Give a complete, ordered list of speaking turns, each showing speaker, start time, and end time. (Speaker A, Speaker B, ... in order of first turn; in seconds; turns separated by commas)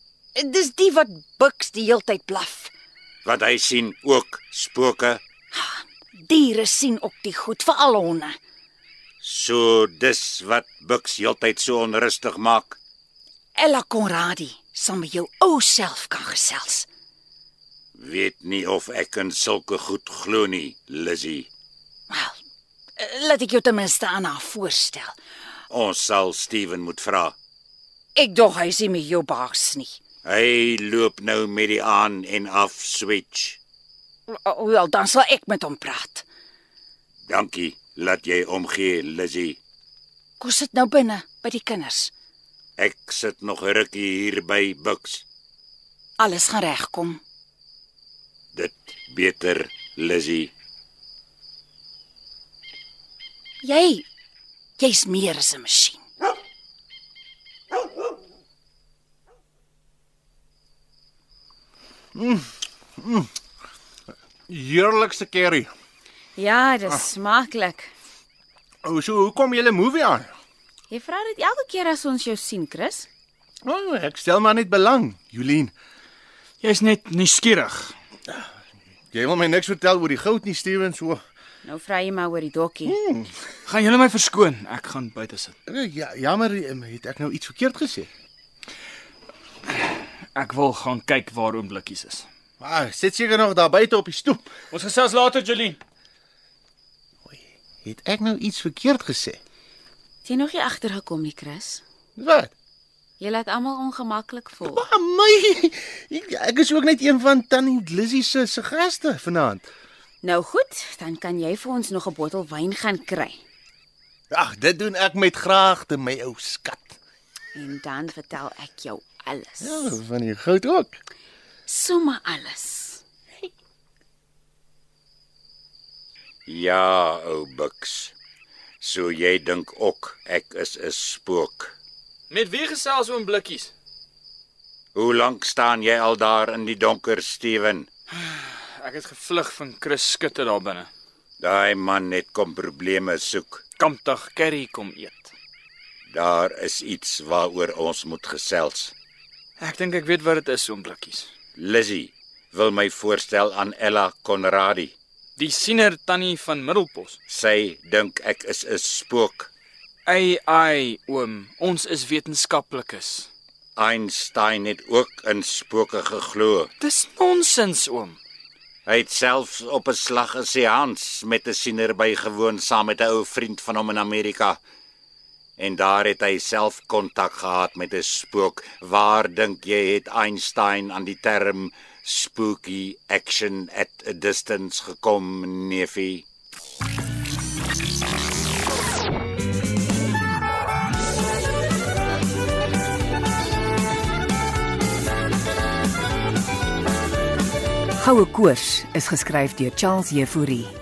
Speaker A: 0.4-2.7, Speaker B: 3.2-5.2, Speaker A: 5.5-8.4, Speaker B: 9.2-12.8, Speaker A: 13.6-16.9, Speaker B: 17.9-21.5, Speaker A: 22.1-22.4, Speaker A: 23.0-25.2, Speaker B: 25.7-27.4, Speaker A: 28.2-30.0, Speaker B: 30.2-33.6, Speaker A: 34.3-36.3, Speaker B: 37.3-39.6, Speaker A: 40.4-42.1, Speaker B: 42.8-45.2, Speaker A: 46.2-47.2, Speaker B: 48.5-50.5, Speaker A: 53.6-54.0, Speaker A: 54.8-56.0, Speaker C: 62.1-62.5, Speaker C: 63.0-63.3, Speaker C: 64.5-65.7, Speaker D: 66.4-67.9, Speaker C: 68.8-70.3, Speaker D: 70.9-73.1, Speaker C: 73.7-75.7, Speaker E: 76.6-78.0, Speaker C: 79.1-81.2, Speaker D: 81.7-83.0, Speaker C: 82.9-83.3, Speaker E: 83.7-85.5, Speaker C: 85.7-88.1, Speaker E: 89.7-92.3, Speaker C: 92.6-94.5, Speaker E: 94.7-95.8, Speaker C: 97.3-99.4, Speaker D: 100.2-101.8, Speaker C: 102.2-102.5, Speaker D: 103.2-104.8, Speaker C: 104.7-109.7, Speaker D: 110.2-113.4, Speaker C: 114.3-117.0, Speaker D: 117.5-120.0, Speaker C: 119.6-121.0, Speaker D: 121.7-123.0, Speaker B: 126.5-128.1, Speaker B: 128.8-131.8, Speaker E: 132.3-133.7, Speaker B: 134.9-137.9, Speaker E: 138.2-140.9, Speaker B: 141.4-143.6, Speaker E: 143.8-145.3, Speaker B: 146.1-148.9, Speaker E: 149.6-151.3, Speaker B: 151.6-154.9, Speaker E: 155.4-157.2, Speaker B: 157.3-159.5, Speaker E: 160.1-163.3, Speaker B: 163.8-166.7, Speaker E: 166.8-168.2, Speaker B: 168.9-174.6, Speaker B: 175.6-186.2, Speaker F: 198.0-200.4